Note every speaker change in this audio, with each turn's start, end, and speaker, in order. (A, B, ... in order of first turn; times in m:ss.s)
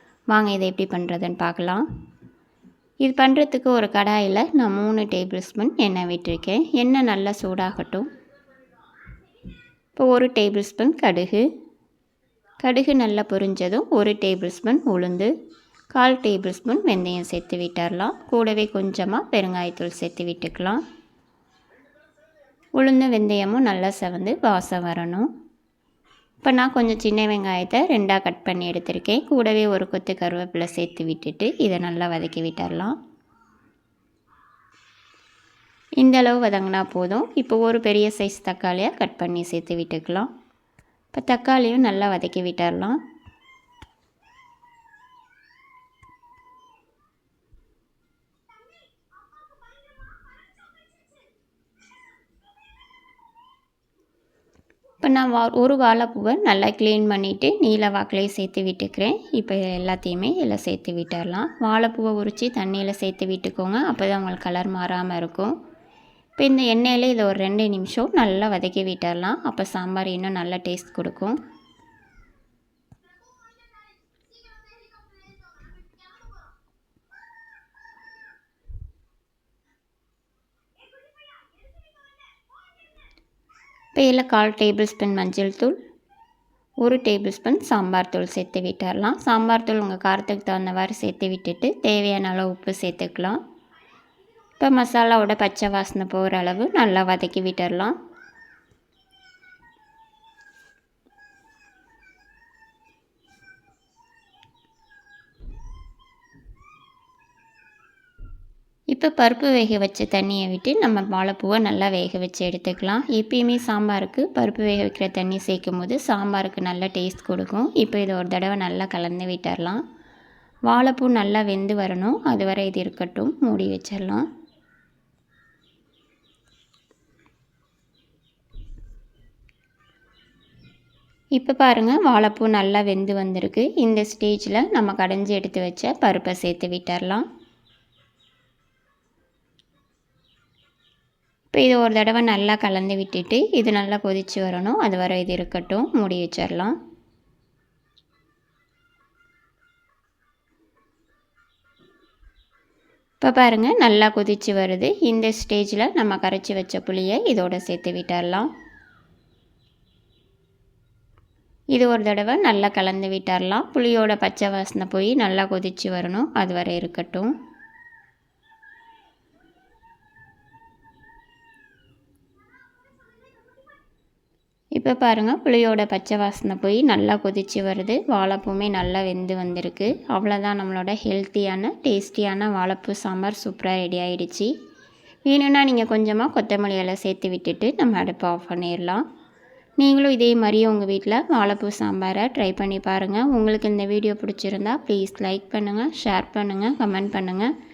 0:00.3-0:01.8 A
0:03.0-0:08.1 A
0:10.0-0:11.4 A
0:12.6-0:15.3 A
0:15.9-0:20.8 A
0:22.8-0:25.3 A
0:26.4-0:33.0 A
0:36.0-0:40.3 A
0:41.1-0:43.0 A
0:55.0-1:05.5 A
1:06.4-1:11.4 A
1:23.9-1:25.8 A
1:26.8-1:33.4 A
1:34.6-1:38.0 A
1:48.9-1:59.8 A
2:00.7-2:04.3 A
2:11.3-2:17.2 A
2:21.5-2:26.8 A
2:33.2-2:38.5 A
2:41.7-2:47.3 A
2:54.8-3:04.5 A
3:05.2-3:09.0 A
3:09.8-3:17.5 A